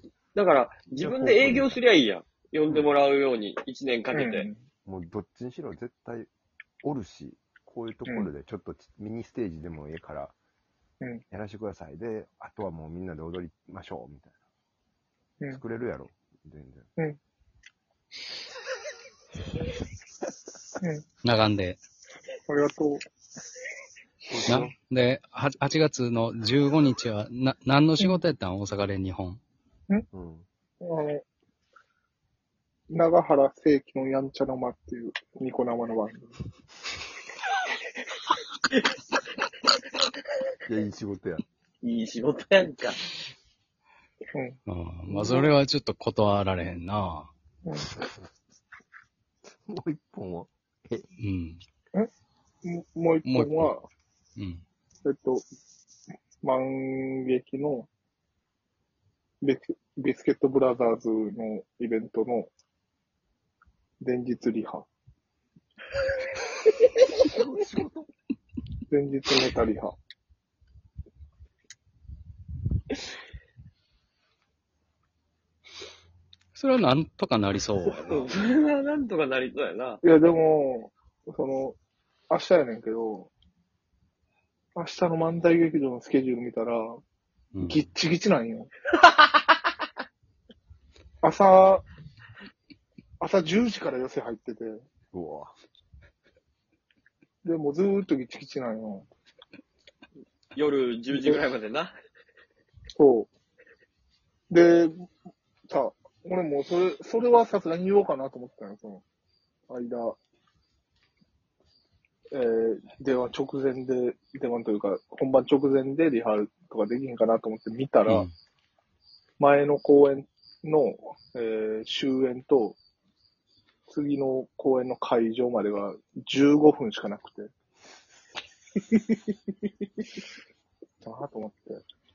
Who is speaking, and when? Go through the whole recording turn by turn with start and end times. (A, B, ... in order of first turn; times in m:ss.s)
0:00.3-0:04.5 A
0:01.0-0:01.8 B
0:04.1-0:04.6 C
0:04.8-0:06.3 B
0:06.8-0:10.3 B
0:11.3-0:14.3 B
0:15.5-0:16.9 B
0:21.2-0:21.8 D
0:22.5-0:23.0 C
0:24.3-0:24.7 B
0:24.5-0:29.4 D
0:30.1-0:30.4 B
0:30.8-0:31.2 C
0:32.9-0:36.3 C
0:40.6-0:41.4 B
0:41.8-0:43.1 A
0:44.3-0:45.5 C
0:44.7-0:47.3 D
0:47.6-0:47.9 C
0:49.6-0:51.1 B
0:51.2-0:51.6 D
0:52.6-0:53.8 C
0:53.2-0:53.7 D
0:54.4-0:54.6 D
0:55.0-0:55.4 C
0:56.4-0:57.9 C
0:59.4-1:02.5 C
1:04.0-1:04.9 C
1:07.2-1:08.1 B
1:08.9-1:10.0 C
1:16.5-1:18.3 D
1:17.9-1:20.0 A
1:20.0-1:21.8 C
1:22.3-1:23.3 C
1:24.7-1:27.0 C
1:27.5-1:27.9 D
1:27.6-1:28.7 C
1:31.2-1:31.8 C
1:33.2-1:34.8 C
1:35.1-1:35.5 B
1:37.4-1:39.1 C
1:40.5-1:41.9 A
1:43.0-1:43.3 C
1:44.5-1:45.1 C
1:45.7-1:49.0 C
1:49.7-1:50.2 C
1:52.3-1:58.3 C
1:58.1-1:58.3 D
1:59.4-2:02.8 C
2:03.9-2:07.5 C
2:11.0-2:11.8 C